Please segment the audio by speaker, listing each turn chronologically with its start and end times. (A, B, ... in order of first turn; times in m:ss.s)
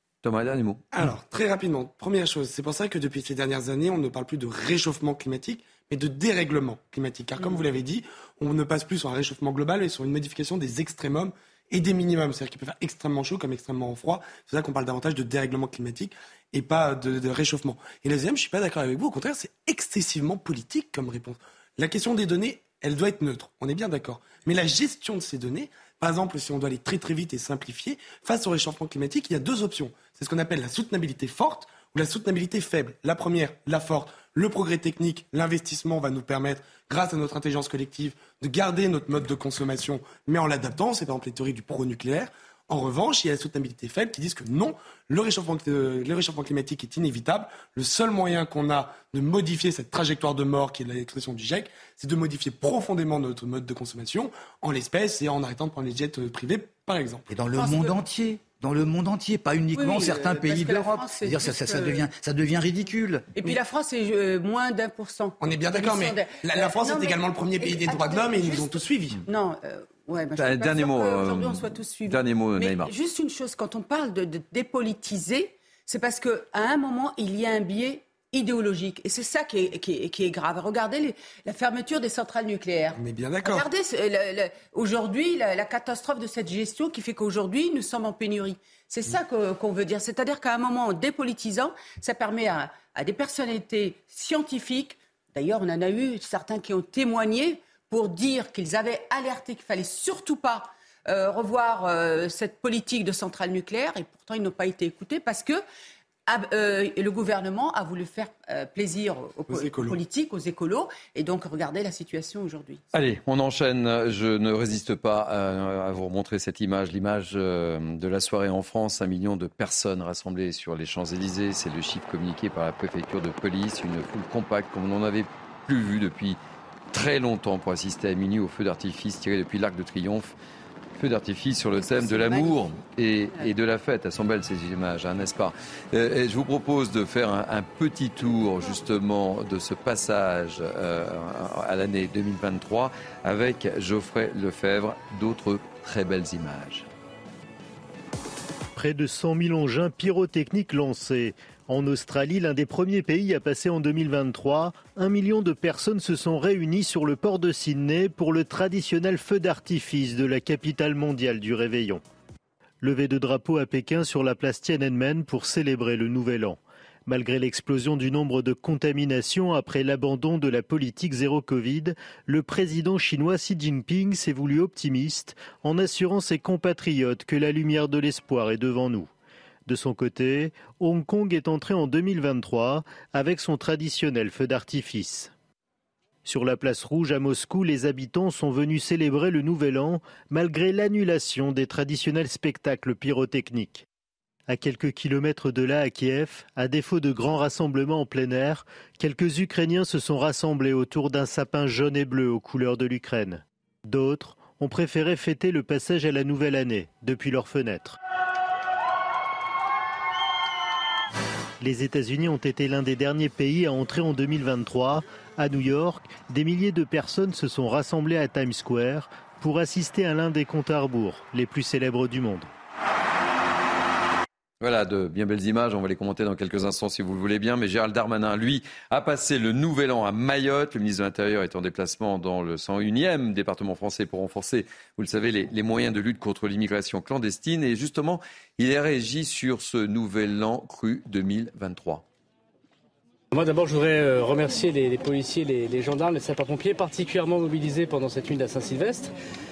0:00.2-0:00.8 A
0:00.9-0:57.2 B
0:57.3-1:03.4 C
0:57.6-0:58.0 D
0:59.7-1:02.0 D
1:03.4-1:45.6 D
1:05.4-1:09.2 B
1:10.4-1:12.9 A
1:23.0-1:23.7 B
1:46.3-1:52.8 D
1:49.5-1:50.0 B
1:52.9-2:06.4 A
2:06.9-2:10.4 A
2:11.0-2:26.9 A
2:11.8-2:12.6 D
2:28.8-2:42.0 E
2:42.8-2:59.1 E
2:59.7-3:05.3 E
3:06.3-3:13.8 E
3:14.5-3:28.0 E
3:31.6-3:42.5 E
3:44.6-4:02.0 A
4:03.3-4:09.1 F